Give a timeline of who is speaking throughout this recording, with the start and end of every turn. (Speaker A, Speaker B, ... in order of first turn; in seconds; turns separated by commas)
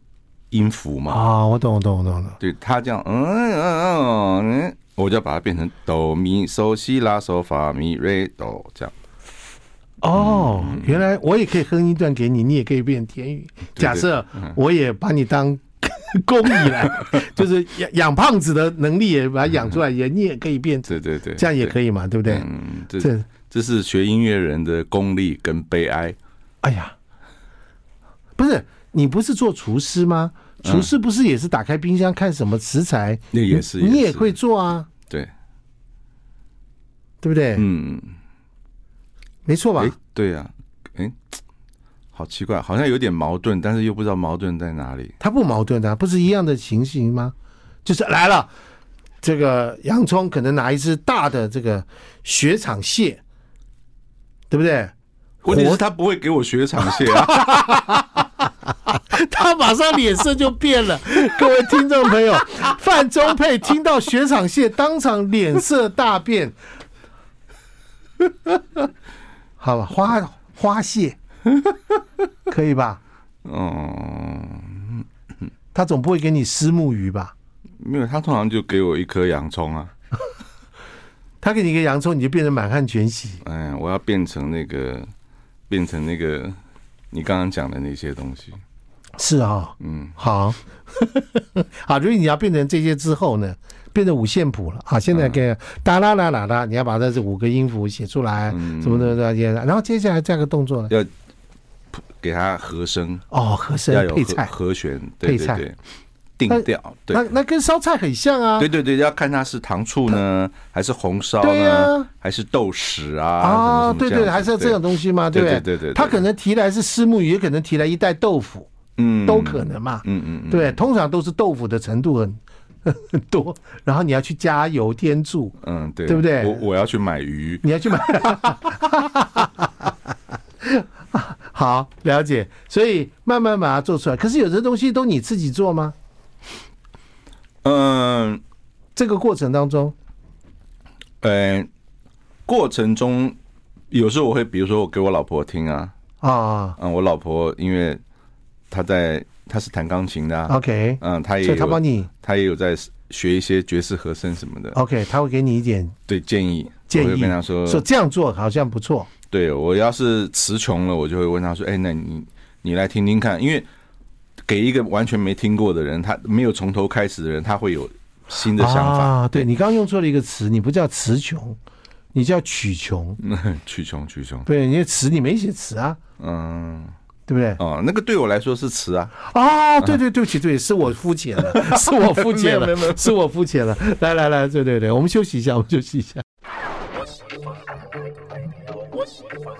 Speaker A: 0.5-1.2, Speaker B: 1.1-2.4, Speaker A: 2.4-8.9, Speaker B: 10.0-23.3, Speaker A: 10.2-11.1, Speaker A: 13.8-14.5, Speaker A: 20.9-21.8, Speaker A: 22.3-26.2, Speaker B: 26.6-26.9, Speaker B: 28.4-34.9, Speaker A: 30.6-30.9, Speaker A: 33.3-34.3, Speaker B: 37.2-37.7, Speaker A: 37.6-38.1, Speaker B: 39.5-39.9, Speaker A: 39.8-41.2, Speaker A: 42.1-45.1, Speaker B: 45.2-48.5, Speaker B: 49.2-53.2, Speaker B: 54.5-54.9, Speaker A: 55.4-58.0, Speaker B: 55.5-55.8, Speaker B: 57.0-58.2, Speaker B: 58.9-66.5, Speaker B: 69.6-71.2, Speaker B: 72.5-73.0, Speaker A: 73.4-75.1, Speaker B: 75.7-77.3, Speaker A: 77.8-79.9, Speaker B: 81.4-83.4, Speaker A: 83.4-85.1, Speaker A: 85.7-86.6, Speaker A: 87.1-88.6, Speaker B: 89.2-100.9, Speaker A: 89.8-90.2, Speaker A: 95.1-95.4, Speaker A: 98.5-99.2, Speaker A: 101.9-103.2, Speaker B: 103.3-104.5, Speaker A: 103.9-105.8, Speaker B: 105.2-105.6, Speaker A: 106.4-107.2, Speaker B: 106.5-108.7, Speaker A: 108.6-114.8, Speaker B: 111.4-112.1, Speaker B: 113.4-118.7, Speaker A: 115.3-116.2, Speaker A: 119.0-120.8, Speaker B: 119.2-126.6, Speaker A: 125.6-128.6, Speaker B: 127.6-129.9, Speaker B: 130.6-135.9, Speaker A: 137.6-138.4, Speaker B: 139.0-139.9, Speaker A: 141.2-141.7, Speaker A: 142.5-143.4, Speaker A: 143.9-145.9, Speaker B: 146.2-146.8, Speaker A: 146.8-148.0, Speaker A: 148.7-154.8, Speaker B: 150.5-152.1, Speaker B: 154.7-156.0, Speaker A: 156.1-157.8, Speaker B: 156.9-159.1, Speaker A: 159.3-163.7, Speaker A: 164.4-169.5, Speaker B: 168.6-171.6, Speaker B: 172.1-173.2, Speaker A: 173.2-174.5, Speaker B: 174.5-176.0, Speaker A: 176.2-176.9, Speaker B: 177.3-177.6, Speaker A: 177.6-179.1, Speaker B: 179.2-186.2, Speaker A: 181.4-183.1